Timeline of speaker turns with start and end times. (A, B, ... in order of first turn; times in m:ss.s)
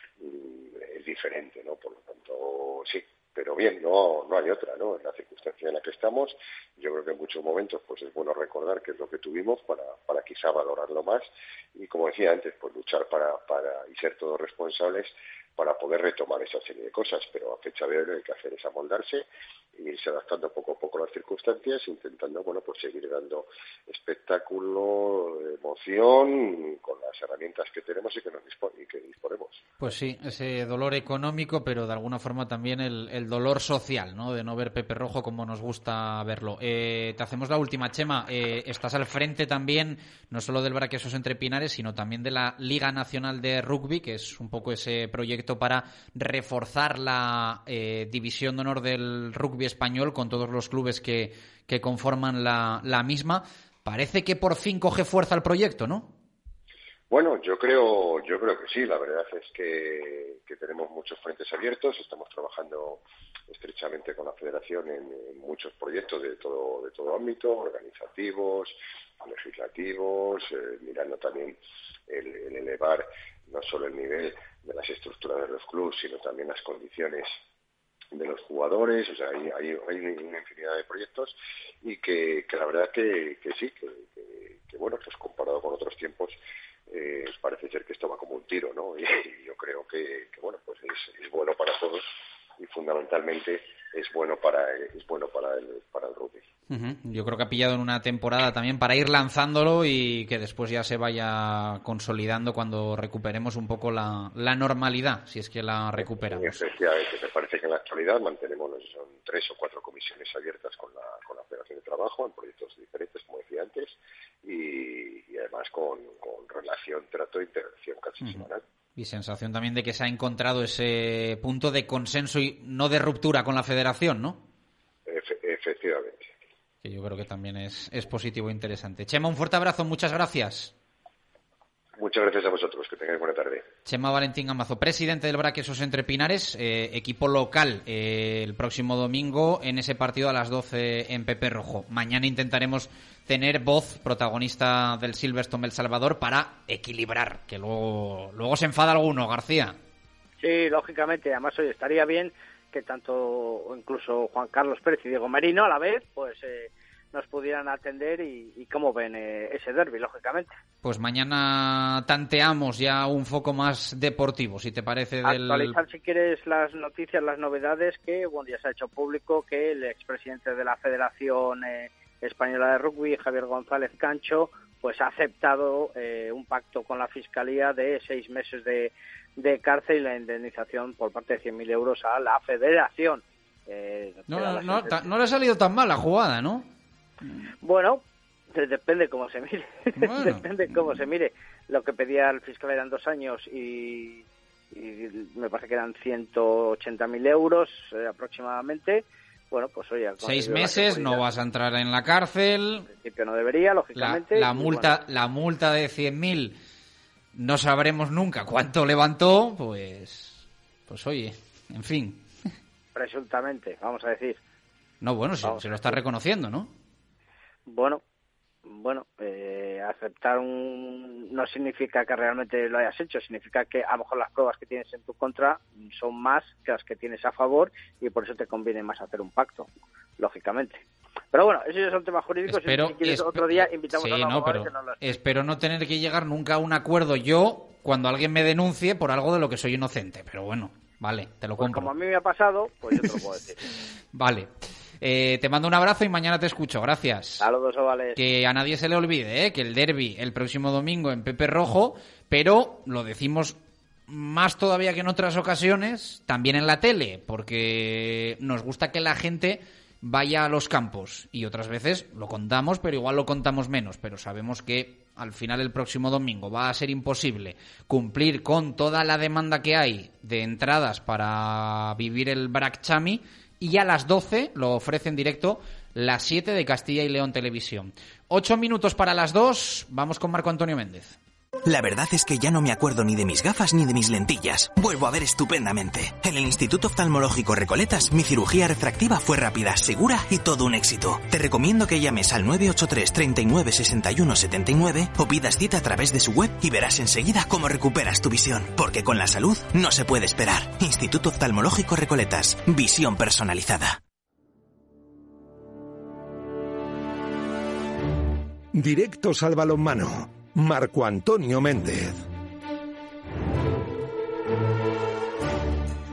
0:00.2-0:29.6 A
0:29.8-0:56.1 B
0:57.1-1:11.6 A
1:12.1-1:17.3 A
1:18.1-1:26.4 A
1:26.9-1:32.0 A
1:32.6-1:36.4 A
1:36.7-1:46.6 B
1:46.0-1:58.6 A
1:58.2-2:04.4 B
2:05.0-2:06.3 A
2:06.8-2:10.7 B
2:12.0-2:13.6 A
2:13.8-2:29.8 B
2:30.4-2:40.5 C
2:40.8-2:45.8 B
2:45.2-3:05.0 C
3:04.3-3:06.7 B
3:07.6-3:08.0 C
3:08.5-3:21.2 C
3:10.0-3:11.0 B
3:20.2-3:22.9 B
3:22.9-3:24.9 C
3:23.9-3:26.5 B
3:27.3-3:32.2 B
3:32.9-3:34.4 C
3:35.0-3:36.7 B
3:35.4-3:35.9 C
3:37.6-3:38.0 C
3:38.6-3:49.7 C
3:50.2-3:50.8 C
3:51.3-3:55.1 C
3:52.5-4:01.9 B
4:01.6-4:03.6 C
4:04.1-4:04.5 B
4:05.0-4:07.4 B
4:07.4-4:08.2 C
4:08.2-4:41.2 B
4:41.7-5:04.0 D
5:08.7-5:12.2 E